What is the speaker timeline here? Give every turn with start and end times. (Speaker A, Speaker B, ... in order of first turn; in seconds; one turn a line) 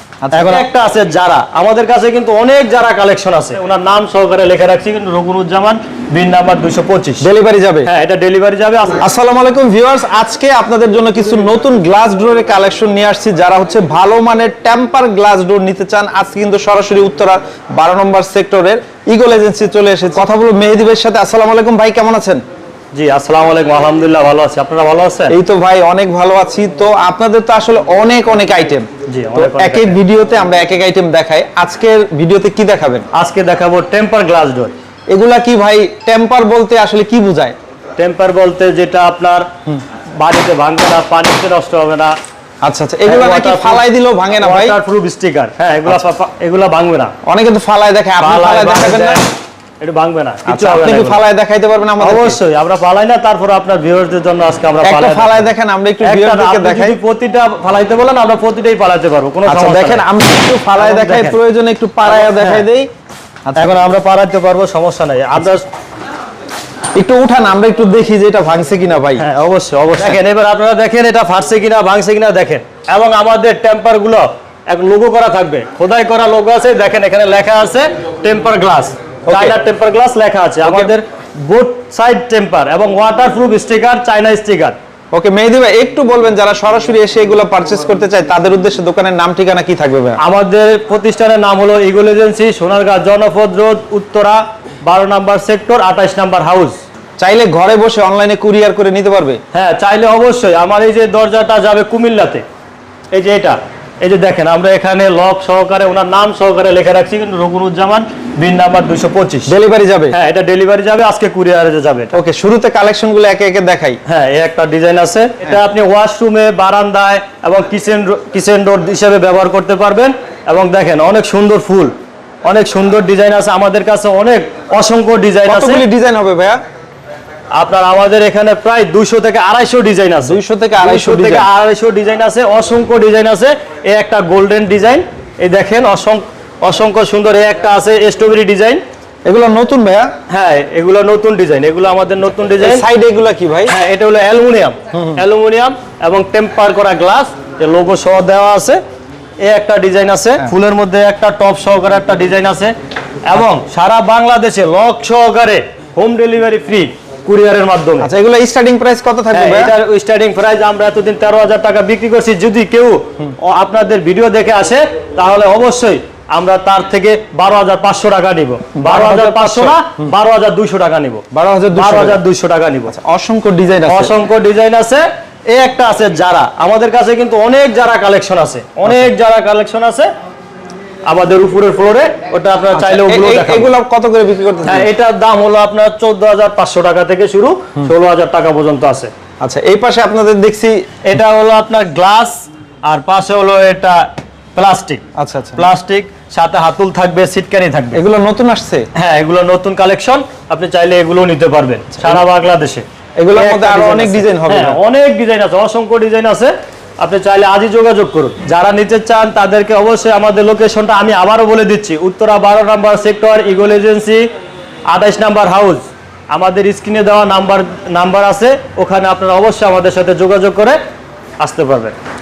Speaker A: 0.2-0.7
Speaker B: 0.3-7.3
Speaker A: 7.2-7.9
Speaker B: 7.9-9.0
Speaker A: 9.0-22.4
Speaker B: 22.9-25.4
Speaker A: 25.3-33.0
Speaker B: 29.1-30.0
Speaker B: 33.1-34.7
Speaker A: 35.1-37.5
Speaker B: 38.0-39.5
Speaker B: 40.2-42.2
Speaker A: 42.6-44.8
Speaker B: 43.1-43.8
Speaker B: 44.4-47.1
Speaker A: 47.2-49.2
Speaker B: 48.2-49.3
Speaker B: 49.8-51.2
Speaker A: 50.5-52.4
Speaker B: 52.0-55.5
Speaker A: 54.8-57.0
Speaker B: 56.0-60.0
Speaker A: 59.5-62.9
Speaker B: 60.8-61.4
Speaker B: 62.1-62.6
Speaker A: 63.5-63.8
Speaker B: 63.6-65.7
Speaker A: 67.0-69.2
Speaker B: 69.2-84.8
Speaker A: 79.3-79.6
Speaker A: 80.6-80.9
Speaker A: 85.1-90.2
Speaker B: 90.2-96.8
Speaker A: 97.2-99.4
Speaker B: 99.5-102.4
Speaker B: 103.1-109.5
Speaker A: 109.5-110.2
Speaker B: 110.1-112.2
Speaker A: 112.1-114.0
Speaker B: 114.1-121.9
Speaker B: 122.4-125.8
Speaker A: 125.5-126.6
Speaker B: 127.5-138.8
Speaker A: 130.3-131.5
Speaker A: 139.3-140.1
Speaker B: 140.3-142.8
Speaker A: 142.6-143.7
Speaker B: 143.7-148.8
Speaker A: 144.9-145.2
Speaker B: 149.4-158.1
Speaker A: 158.0-159.7
Speaker B: 159.3-171.2
Speaker A: 168.8-170.1
Speaker A: 171.3-172.2
Speaker B: 171.8-173.0
Speaker A: 172.9-174.1
Speaker B: 173.9-180.1
Speaker B: 181.1-183.7
Speaker A: 182.7-184.9
Speaker B: 184.7-189.1
Speaker A: 189.4-190.8
Speaker B: 191.0-195.0
Speaker A: 195.2-195.7
Speaker B: 195.6-198.0
Speaker A: 197.9-198.9
Speaker B: 198.9-214.3
Speaker A: 203.2-204.8
Speaker B: 214.9-220.8
Speaker B: 221.4-221.9